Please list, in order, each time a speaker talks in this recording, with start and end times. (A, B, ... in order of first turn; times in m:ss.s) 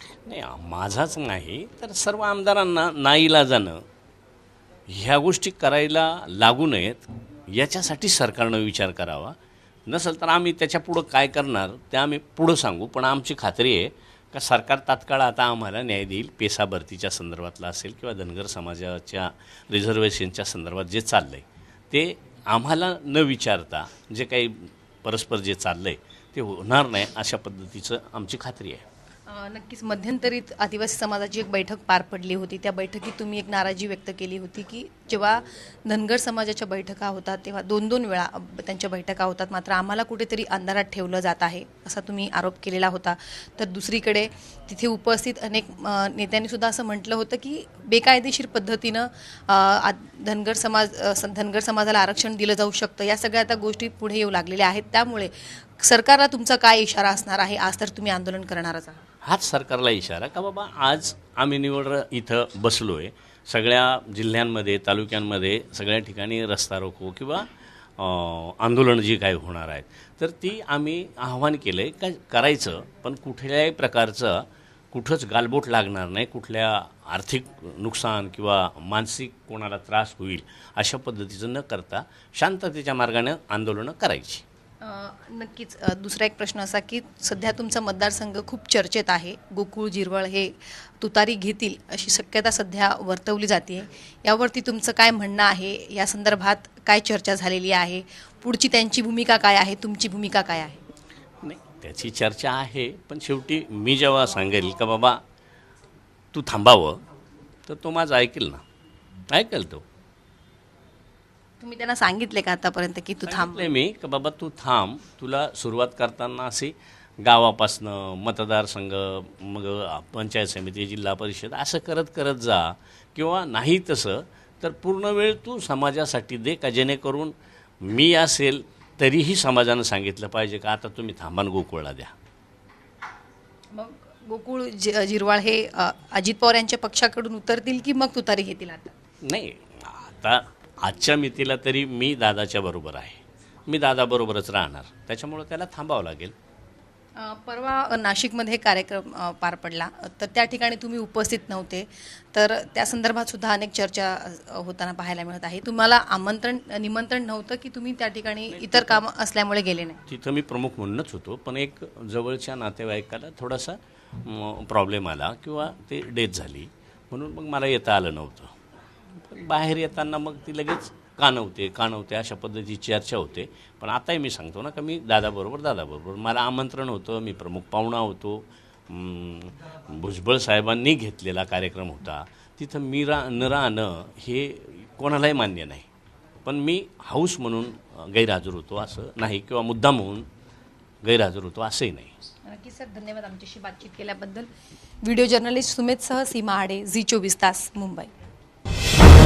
0:00.2-0:03.8 A
0:04.9-0:09.3 A
0:09.9-0:28.8 A
0:29.3-0:59.1 B
0:59.2-1:24.4 A
1:24.8-1:40.8 B
1:41.4-1:45.2 A
1:46.3-1:47.0 A
1:47.7-1:48.6 A
1:49.3-1:49.8 A
1:51.6-1:53.7 B
1:53.2-2:12.1 A
2:13.7-2:18.9 B
2:19.2-2:26.3 A
2:27.2-2:40.0 B
2:38.5-2:39.0 A
2:40.1-2:48.5 A
2:49.2-3:05.8 A
3:06.4-3:10.2 A
3:11.0-3:12.1 A
3:12.4-3:14.5 B
3:15.0-3:18.1 B